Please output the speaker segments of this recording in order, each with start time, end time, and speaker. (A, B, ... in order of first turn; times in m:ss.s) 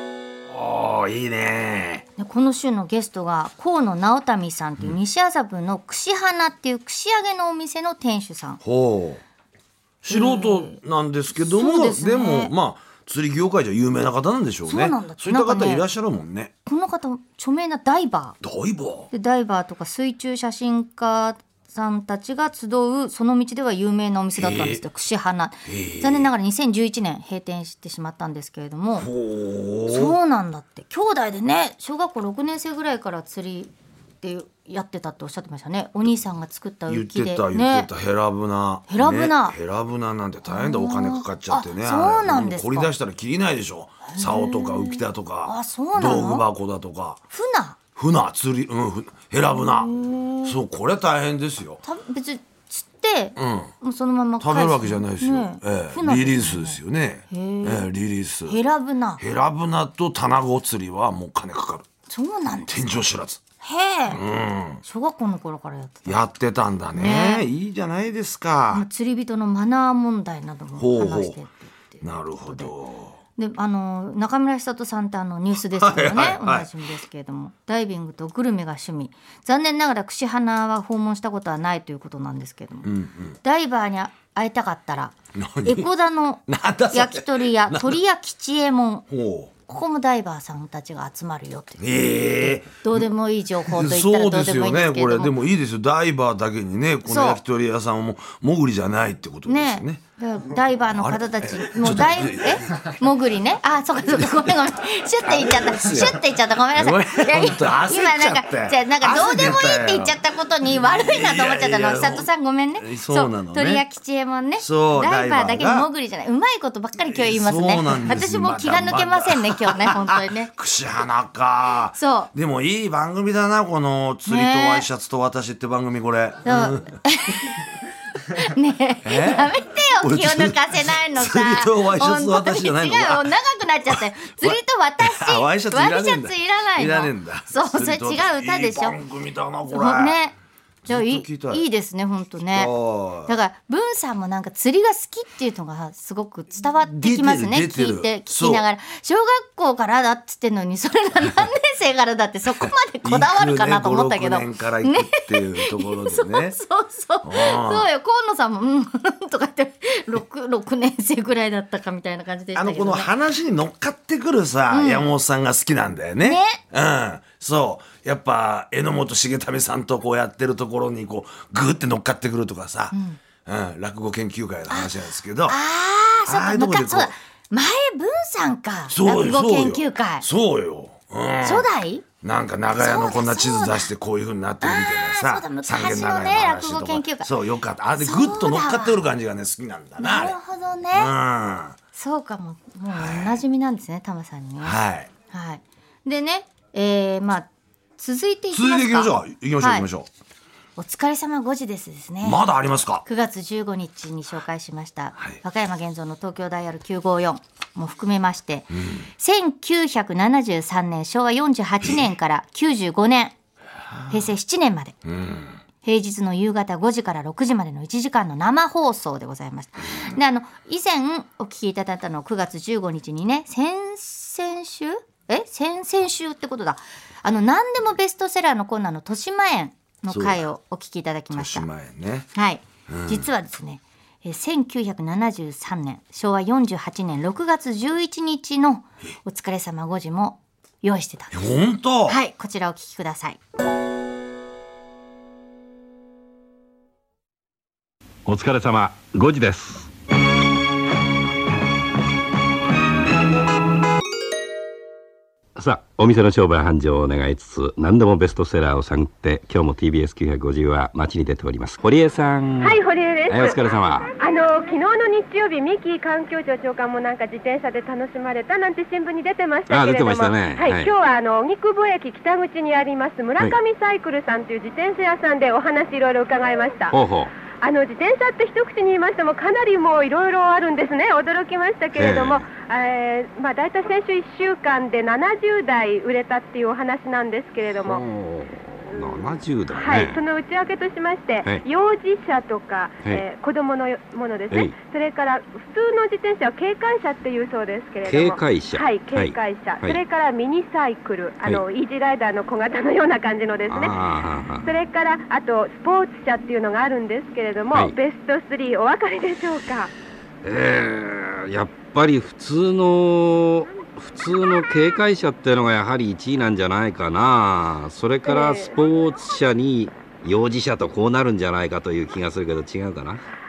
0:00.5-0:02.0 A
0:02.2-0:08.6 B
0:08.6-0:09.2 A
0:10.0-0:16.5 A
0:10.1-0:10.8 B
0:11.3-0:12.5 B
0:14.6-0:15.8 B
0:16.6-0:18.4 B
0:18.4-0:19.1 A
0:19.1-0:29.1 B
0:24.4-0:24.8 A
0:25.6-0:26.3 A
0:29.0-0:30.2 A
0:29.8-0:37.9 B
0:36.9-0:47.2 A
0:38.9-0:39.6 B
0:40.4-0:42.9 B
0:44.0-0:46.4 B
0:47.3-0:47.8 B
0:48.0-0:51.8 A
0:49.5-0:50.6 B
0:51.8-0:56.8 B
0:53.4-0:53.7 A
0:54.4-0:58.6 A
0:57.3-0:57.9 B
0:58.4-0:59.2 B
0:59.2-1:01.8 A
1:02.1-1:02.9 B
1:02.7-1:03.4 A
1:03.6-1:04.2 B
1:04.1-1:04.8 A
1:04.8-1:06.2 B
1:06.0-1:08.8 A
1:06.9-1:07.4 B
1:08.7-1:12.7 B
1:10.8-1:11.4 A
1:12.0-1:13.2 A
1:13.4-1:22.9 B
1:15.6-1:16.7 A
1:22.8-1:23.4 A
1:23.4-1:29.0 B
1:25.3-1:25.9 A
1:26.5-1:28.0 A
1:29.1-1:29.5 A
1:29.7-1:35.3 B
1:31.8-1:33.1 A
1:33.6-1:40.0 A
1:37.0-1:37.4 B
1:39.5-2:00.5 B
1:40.8-1:42.9 A
1:44.1-1:44.6 A
1:45.2-1:53.8 A
1:54.6-1:55.9 A
1:57.0-2:07.0 A
2:01.9-2:02.3 B
2:04.3-2:04.9 B
2:06.4-2:07.6 B
2:08.3-2:19.0 B
2:09.0-2:13.3 A
2:13.9-2:20.2 A
2:19.7-2:20.3 B
2:20.8-2:21.6 A
2:20.9-2:22.7 B
2:22.5-2:23.4 A
2:23.2-2:43.1 B
2:26.9-2:28.6 A
2:33.0-2:36.6 A
2:37.2-2:37.9 A
2:42.5-2:55.6 A
2:44.7-2:45.1 B
2:46.2-2:46.6 B
2:52.9-2:53.2 B
2:55.5-3:00.3 B
2:56.2-2:57.1 A
2:58.9-3:01.7 A
3:01.4-3:02.0 B
3:02.2-3:10.4 A
3:02.7-3:03.9 B
3:04.6-3:07.3 B
3:08.0-3:09.0 B
3:10.0-3:11.1 B
3:10.9-3:11.8 A
3:11.9-3:14.8 B
3:12.9-3:13.4 A
3:14.6-3:15.1 A
3:15.3-3:19.8 B
3:18.5-3:20.1 A
3:20.8-3:22.4 B
3:22.2-3:23.0 A
3:23.0-3:33.3 B
3:28.7-3:29.0 A
3:33.9-3:34.3 A
3:34.1-3:35.0 B
3:35.0-3:35.6 A
3:35.8-3:51.7 B
3:50.1-3:50.4 A
3:51.3-3:52.3 A
3:52.3-4:01.4 B
3:52.9-3:53.3 A
4:01.3-4:02.2 A
4:02.0-4:03.4 B
4:08.2-4:09.9 C
4:15.6-4:24.1 C
4:22.6-4:37.0 D
4:29.7-4:30.9 C
4:36.9-4:37.3 C
4:37.6-4:48.0 D
4:41.9-4:42.4 C
4:47.8-4:50.2 C
4:48.9-5:04.0 D
4:58.0-5:00.0 C
5:03.7-5:04.7 C
5:04.6-5:09.9 D
5:10.4-5:23.2 C
5:14.4-5:14.8 D
5:18.2-5:18.8 D